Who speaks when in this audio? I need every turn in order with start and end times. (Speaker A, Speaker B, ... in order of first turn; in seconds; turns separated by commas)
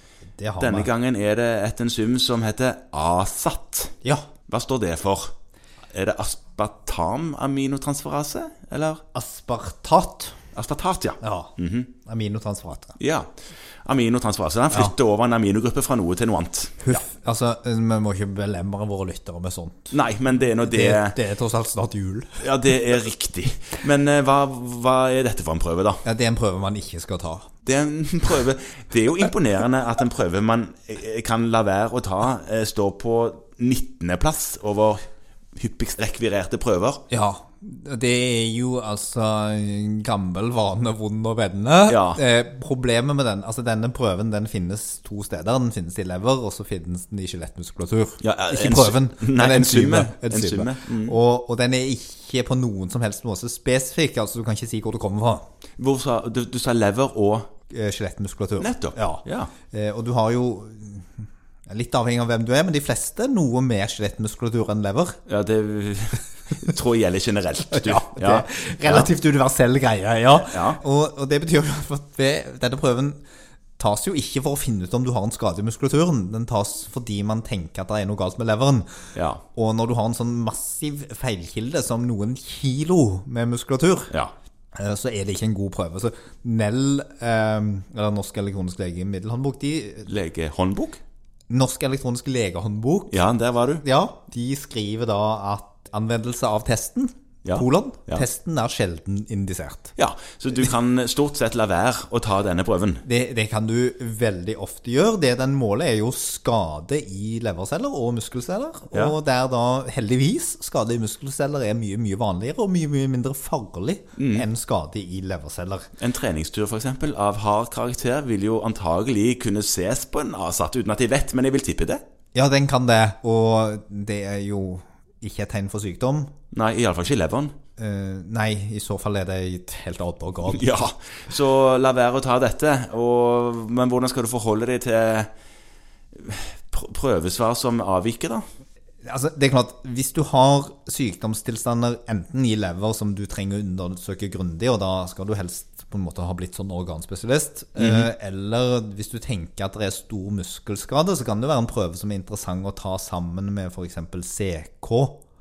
Speaker A: 0.4-0.9, Speaker B: 0.6-5.3, Speaker B: 5.9-9.1, Speaker A: 9.1-10.4, Speaker B: 10.5-11.9, Speaker A: 11.2-11.5, Speaker A: 12.1-13.0, Speaker B: 13.0-13.3, Speaker B: 13.8-17.0, Speaker A: 16.8-20.0, Speaker B: 19.9-21.2, Speaker A: 20.6-22.6, Speaker B: 22.4-26.0, Speaker A: 26.0-27.5, Speaker B: 27.6-35.0, Speaker B: 35.5-37.0, Speaker A: 37.1-55.4, Speaker B: 41.9-42.2, Speaker B: 48.2-51.1, Speaker B: 55.8-57.5, Speaker A: 57.7-65.2, Speaker B: 58.6-59.5, Speaker B: 65.2-69.1, Speaker A: 67.7-73.2, Speaker B: 70.4-70.8, Speaker A: 73.8-79.0, Speaker B: 79.1-79.4, Speaker A: 79.5-84.1, Speaker A: 84.7-90.1, Speaker B: 90.0-91.0, Speaker A: 91.5-93.2, Speaker B: 93.1-93.8, Speaker A: 93.8-99.9, Speaker B: 97.4-98.2, Speaker B: 100.0-103.0, Speaker A: 103.0-115.9, Speaker B: 114.2-114.5, Speaker B: 116.0-122.0, Speaker A: 122.3-126.3, Speaker B: 126.5-127.6, Speaker A: 127.8-130.8, Speaker B: 130.5-135.3, Speaker B: 136.1-138.4, Speaker A: 139.0-155.2, Speaker B: 147.8-148.1